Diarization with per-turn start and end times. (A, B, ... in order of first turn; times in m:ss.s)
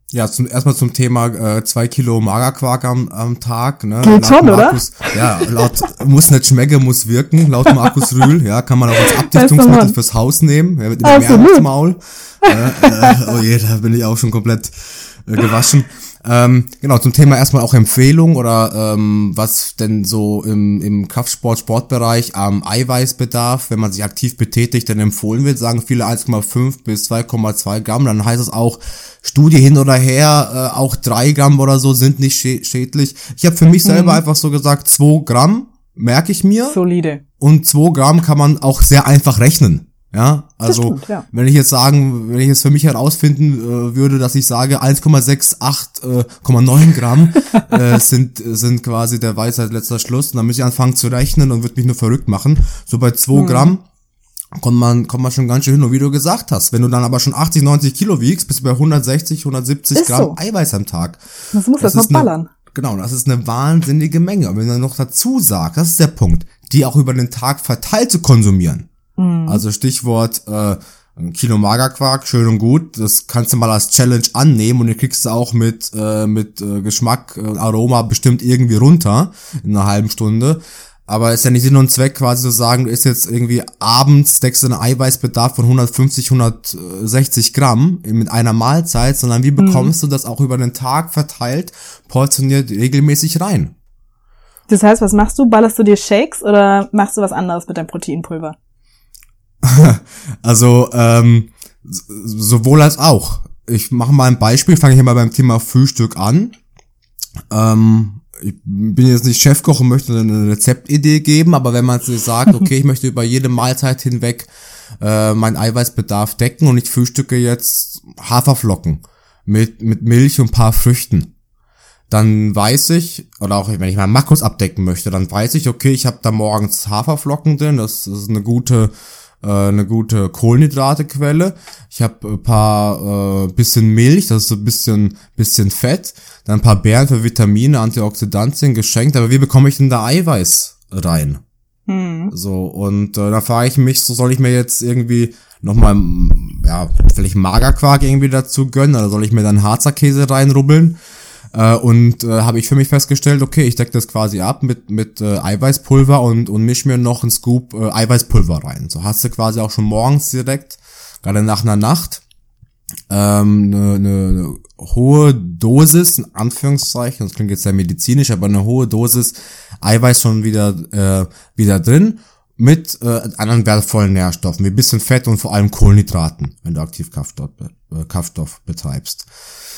0:00.1-0:36.8 A
0:04.0-0:05.4 B
0:07.7-0:07.9 B
0:09.0-0:09.9 B
0:11.0-0:11.6 B
0:12.4-0:13.1 B
0:33.8-0:34.2 B
0:36.7-0:37.2 B
0:37.4-0:53.8 A
0:40.7-0:41.2 B
0:53.3-0:53.7 B
0:54.6-1:01.2 A
1:00.0-1:00.4 B
1:01.5-1:02.5 B
1:01.8-1:08.9 A
1:09.2-1:09.6 B
1:09.4-1:33.7 A
1:29.6-1:29.9 B
1:34.7-1:38.6 B
1:39.6-1:46.5 A
1:47.5-1:54.5 A
1:55.0-2:01.3 A
2:02.1-2:21.4 A
2:21.9-2:22.3 B
2:22.3-2:31.0 A
2:31.5-2:42.2 A
2:43.1-2:59.3 A